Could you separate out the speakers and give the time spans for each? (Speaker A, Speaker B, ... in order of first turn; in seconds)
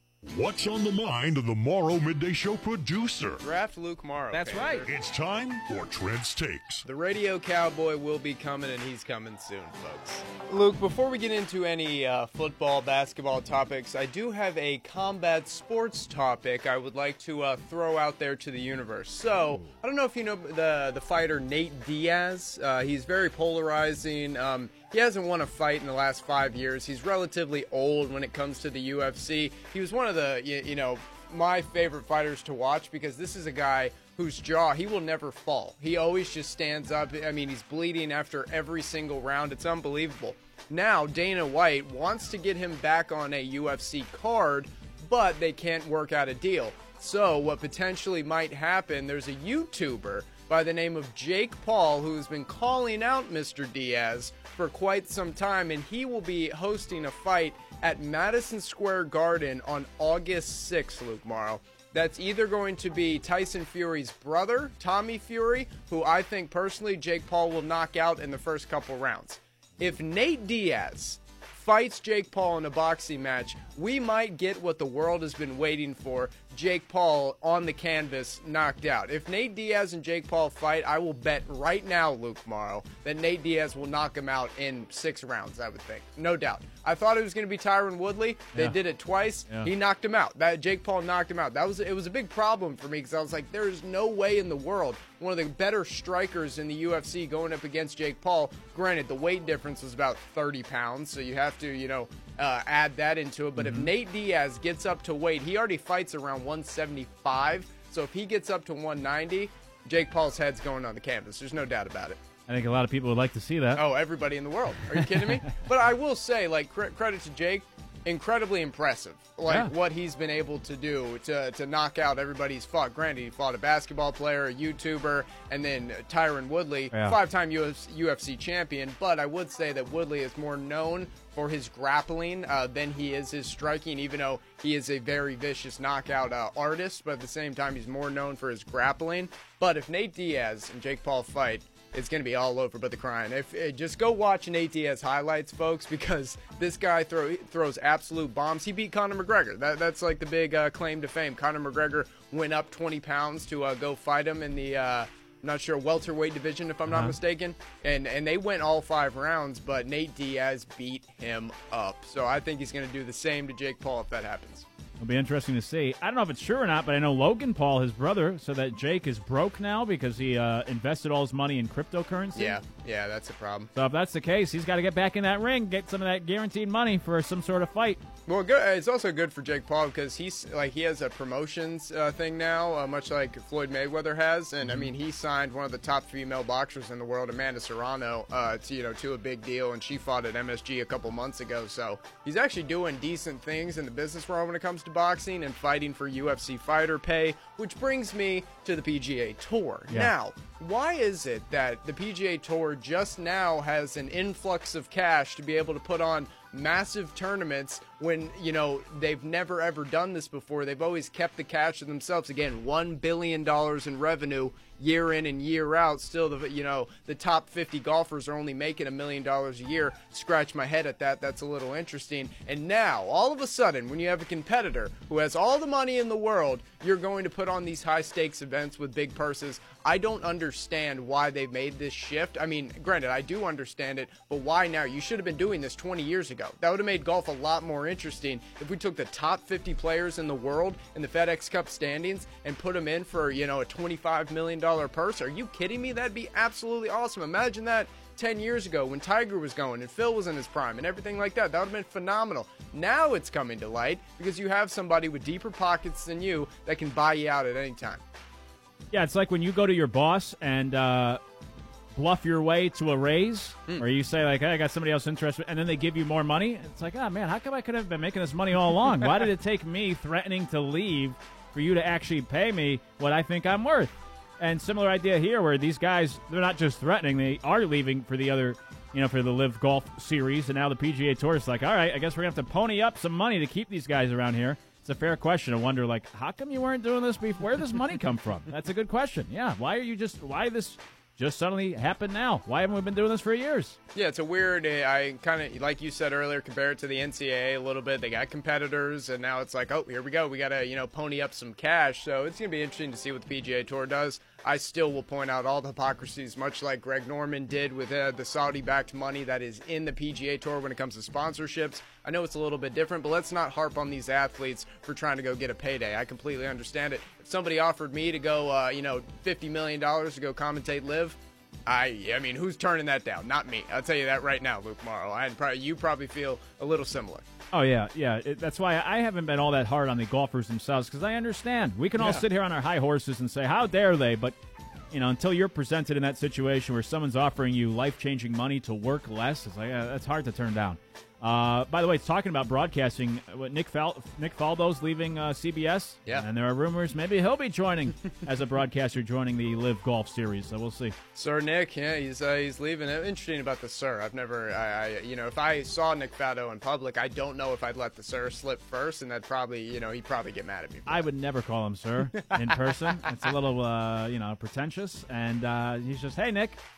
Speaker A: 0.3-3.4, 4.9-6.9
Speaker B: 3.4-4.9, 6.8-112.2, 113.7-164.7, 172.3-173.7, 178.3-258.0, 293.9-327.3, 332.0-332.3, 351.1-361.1, 362.1-363.2
Speaker C: 4.3-4.9, 103.6-103.9, 112.5-113.8, 115.0-115.6, 119.5-119.7, 126.9-127.2, 156.9-157.2, 165.0-172.6, 173.7-178.0, 258.9-261.2, 261.9-293.8, 327.5-334.4, 334.9-351.0, 360.9-366.6